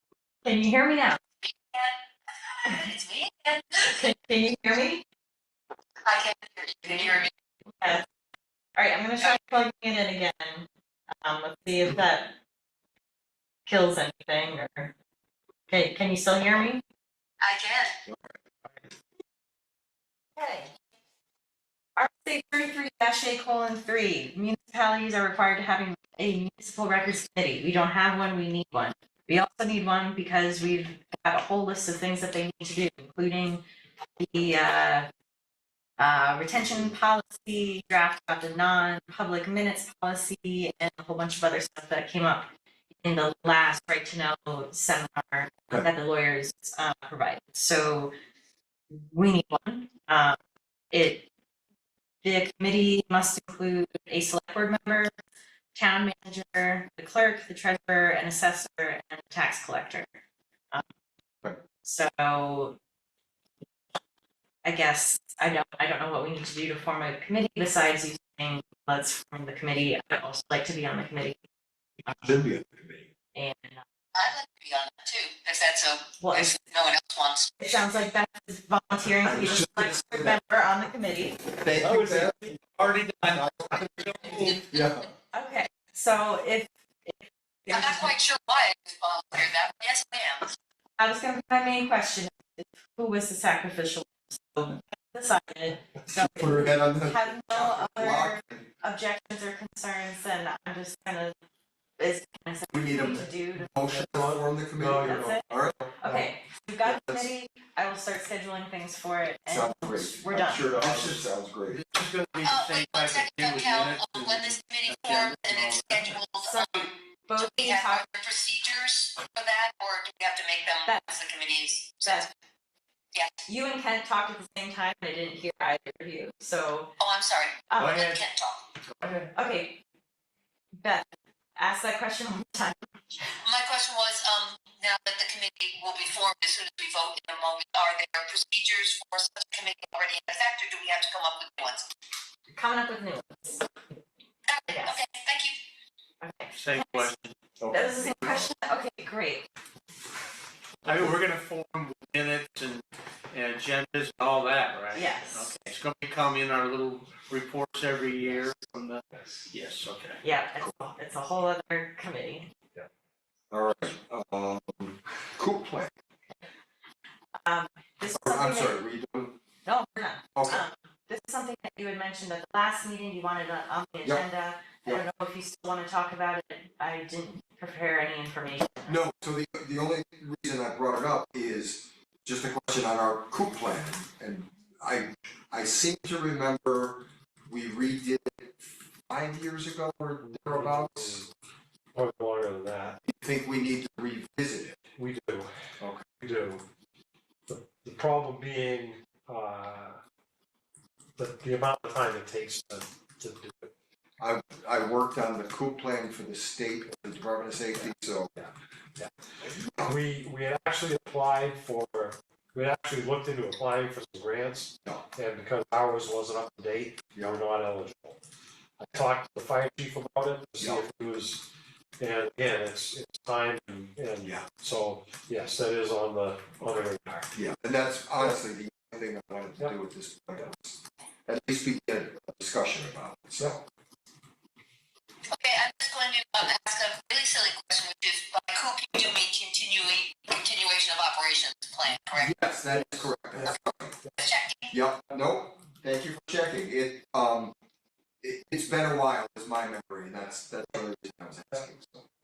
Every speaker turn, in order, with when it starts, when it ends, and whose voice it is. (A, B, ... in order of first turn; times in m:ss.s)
0:00.4-0:01.2 A
0:01.4-0:02.0 B
0:02.5-0:03.9 B
0:03.8-0:05.0 A
0:06.0-0:07.3 B
0:08.8-0:10.7 A
0:11.2-0:12.4 A
0:13.7-0:14.9 A
0:15.7-0:16.8 A
0:17.4-0:18.0 B
0:20.4-0:20.7 A
0:22.0-0:33.6 A
0:34.2-0:35.1 A
0:36.0-0:42.5 A
0:43.0-0:48.1 A
0:48.9-0:50.4 A
0:50.9-0:51.3 A
0:52.2-0:55.1 A
0:55.8-1:00.1 A
1:01.8-1:02.8 A
1:04.6-1:11.4 A
1:12.1-1:13.1 C
1:13.4-1:13.8 A
1:14.2-1:17.7 B
1:16.2-1:16.6 A
1:17.6-1:21.5 A
1:19.2-1:20.4 C
1:21.6-1:22.5 C
1:21.8-1:24.6 D
1:23.3-1:25.1 C
1:25.3-1:28.2 A
1:27.7-1:30.5 B
1:31.0-1:41.3 A
1:36.1-1:38.6 C
1:42.0-1:43.7 A
1:42.7-1:46.1 C
1:43.8-1:45.2 D
1:44.9-1:45.4 A
1:46.0-1:50.6 A
1:46.8-1:47.3 C
1:49.5-1:51.8 C
1:50.7-1:51.2 D
1:51.8-1:56.2 E
1:52.4-2:02.2 B
1:56.4-1:58.0 A
2:00.9-2:01.2 A
2:02.0-2:02.3 A
2:03.5-2:07.0 A
2:07.0-2:08.6 B
2:07.7-2:08.2 A
2:07.8-2:08.2 E
2:09.0-2:09.3 E
2:09.2-2:09.8 A
2:10.8-2:12.8 A
2:13.4-2:21.9 B
2:22.5-2:23.7 A
2:24.5-2:25.6 B
2:24.7-2:25.0 A
2:26.2-2:27.1 A
2:26.6-2:27.9 E
2:27.7-2:29.5 A
2:28.1-2:28.4 D
2:30.8-2:40.2 E
2:34.9-2:35.5 A
2:40.2-2:42.5 A
2:43.5-2:45.9 C
2:47.4-2:48.8 A
2:48.1-2:49.4 C
2:49.6-2:59.0 A
2:50.4-2:50.6 C
2:58.8-3:08.6 C
3:09.1-3:11.2 C
3:10.2-3:11.3 D
3:11.9-3:13.0 D
3:13.1-3:14.9 C
3:15.0-3:15.5 D
3:15.8-3:16.0 C
3:16.2-3:16.6 D
3:17.5-3:20.0 D
3:21.2-3:23.7 D
3:24.2-3:28.3 C
3:27.8-3:29.1 D
3:29.8-3:38.2 D
3:38.8-3:41.5 D
3:40.6-3:40.8 C
3:42.0-3:47.4 D
3:47.3-3:53.6 C
3:55.3-4:02.3 B
4:02.1-4:04.0 C
4:04.2-4:04.7 B
4:04.7-4:07.6 C
4:08.2-4:12.1 C